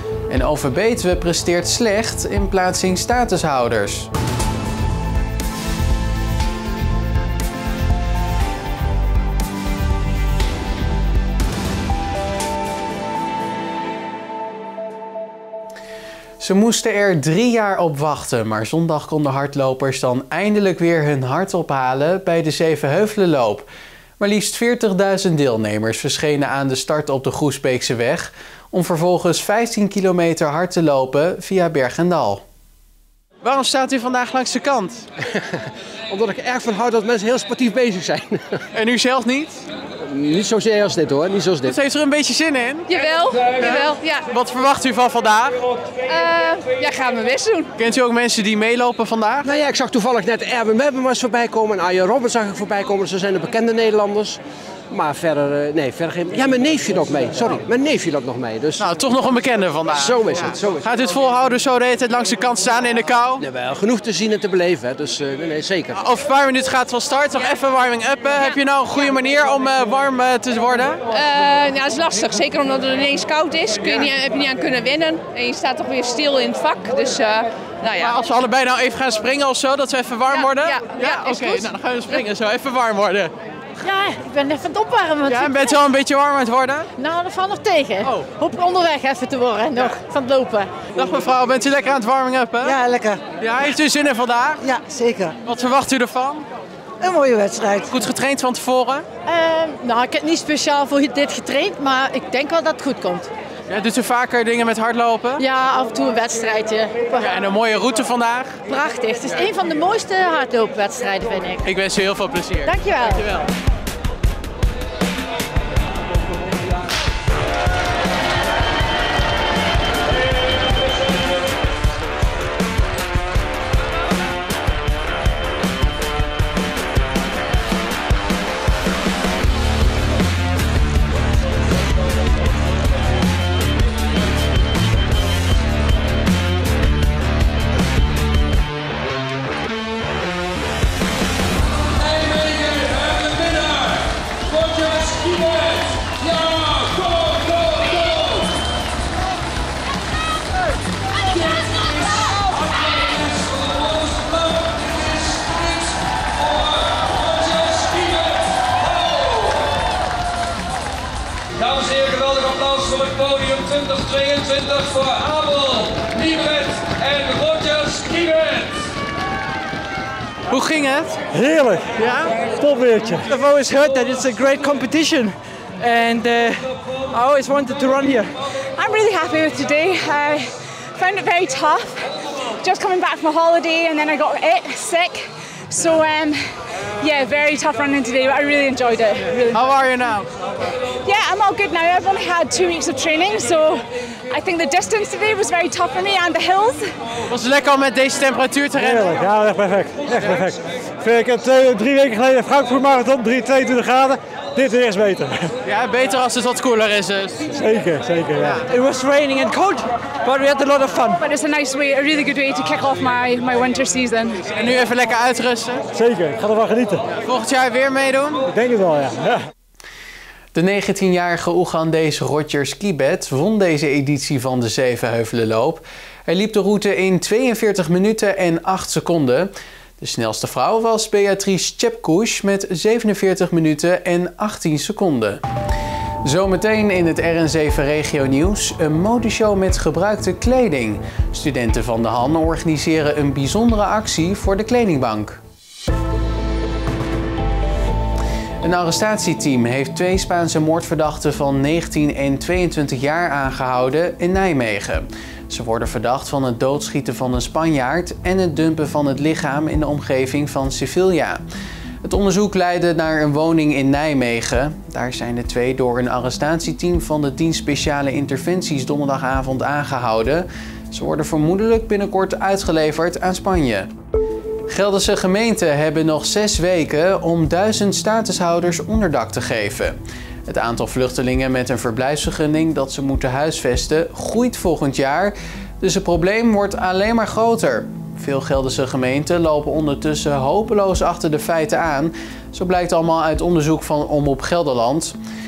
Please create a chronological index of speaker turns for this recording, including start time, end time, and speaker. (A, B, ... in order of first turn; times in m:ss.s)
0:00.3-0:04.1 A
0:16.4-0:23.7 A
0:24.2-0:32.4 A
0:33.4-0:35.0 A
0:35.3-0:38.6 B
0:38.8-0:39.6 A
0:40.1-0:41.8 B
0:41.7-0:42.9 A
0:43.0-0:44.3 C
0:43.6-0:45.6 A
0:46.1-0:47.6 C
0:47.0-0:47.6 D
0:47.8-0:49.5 A
0:49.4-0:54.4 B
0:54.9-0:58.9 B
0:58.8-1:03.4 A
0:59.9-1:00.9 B
1:03.4-1:06.0 B
1:06.0-1:11.0 A
1:11.2-1:18.1 C
1:18.0-1:23.3 A
1:20.6-1:21.4 D
1:23.8-1:25.8 E
1:25.3-1:26.9 A
1:27.0-1:30.8 E
1:30.9-1:32.7 A
1:32.6-1:33.2 F
1:33.4-1:34.6 A
1:34.6-1:35.4 F
1:35.5-1:36.4 A
1:37.0-1:38.0 F
1:37.8-1:39.0 A
1:39.3-1:43.3 E
1:43.7-1:45.4 A
1:45.4-1:47.2 E
1:47.2-1:48.6 A
1:48.7-1:51.7 E
1:51.6-1:53.2 A
1:52.6-1:53.5 E
2:22.5-2:23.9 G
2:24.8-2:28.1 G
2:31.7-2:35.9 G
2:36.9-2:38.4 G
2:41.6-2:48.7 G
2:50.5-2:51.2 A
2:51.3-2:53.3 H
2:52.0-2:52.4 A
2:53.2-2:58.4 G
2:58.8-3:06.4 D
3:07.0-3:09.6 D
3:09.5-3:10.3 A
3:11.0-3:16.9 D
3:17.3-3:19.2 A
3:18.8-3:25.5 H
3:25.6-3:27.4 A
3:27.6-3:28.6 H
3:28.7-3:31.2 G
3:31.2-3:34.4 D
3:34.5-3:35.8 A
3:36.0-3:37.1 H
3:37.2-3:38.4 A
3:38.5-3:39.4 H
3:40.5-3:55.4 A
3:56.2-4:05.4 A
4:08.6-4:21.4 A
4:22.0-4:33.9 A
4:34.7-4:40.0 A
4:40.5-4:55.2 A